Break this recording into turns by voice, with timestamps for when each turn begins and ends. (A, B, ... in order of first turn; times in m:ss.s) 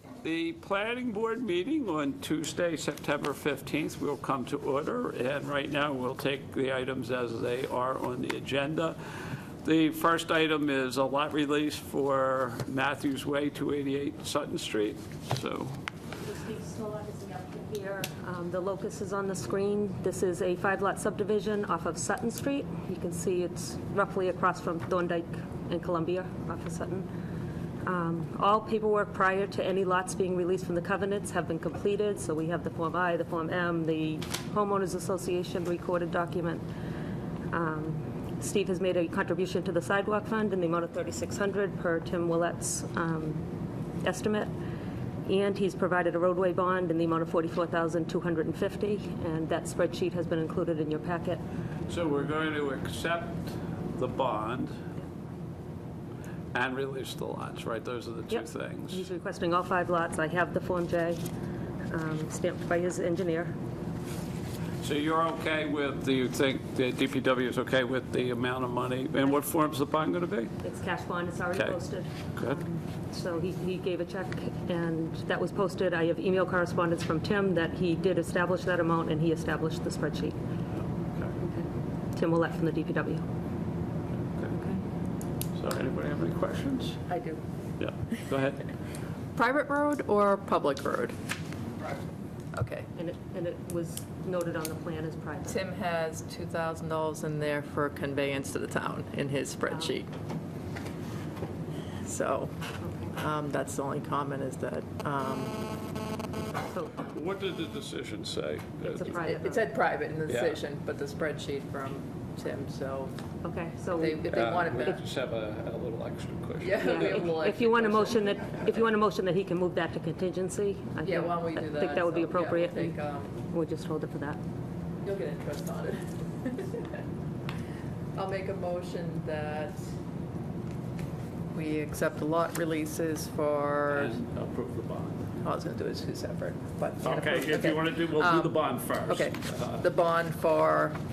0:00.2-0:09.0 A
0:09.6-0:15.8 A
0:16.2-0:27.1 B
0:27.8-0:36.6 B
0:37.5-0:43.5 B
0:44.0-0:44.5 B
0:45.2-0:51.4 B
0:51.9-0:54.8 A
0:56.5-0:59.1 A
0:58.3-1:01.2 B
1:01.9-1:03.6 B
1:04.8-1:10.5 A
1:10.6-1:20.4 B
1:21.0-1:21.3 A
1:21.4-1:23.3 B
1:24.5-1:24.8 B
1:25.5-1:27.0 A
1:27.1-1:27.4 C
1:27.8-1:28.7 A
1:29.4-1:31.2 C
1:32.5-1:32.9 C
1:33.0-1:35.6 B
1:35.5-1:40.1 C
1:42.0-1:42.5 C
1:42.8-1:43.1 B
1:43.1-1:45.6 C
1:47.0-1:49.1 A
1:48.9-1:49.6 B
1:49.1-1:53.1 C
1:50.3-1:50.6 A
1:53.4-1:54.2 B
1:54.0-1:55.0 C
1:54.2-1:57.5 A
1:56.6-1:58.5 C
1:56.8-2:04.4 B
2:01.0-2:03.3 C
2:05.0-2:06.8 C
2:08.2-2:09.9 C
2:11.5-2:14.2 C
2:13.9-2:15.2 A
2:15.4-2:21.0 C
2:17.0-2:19.8 A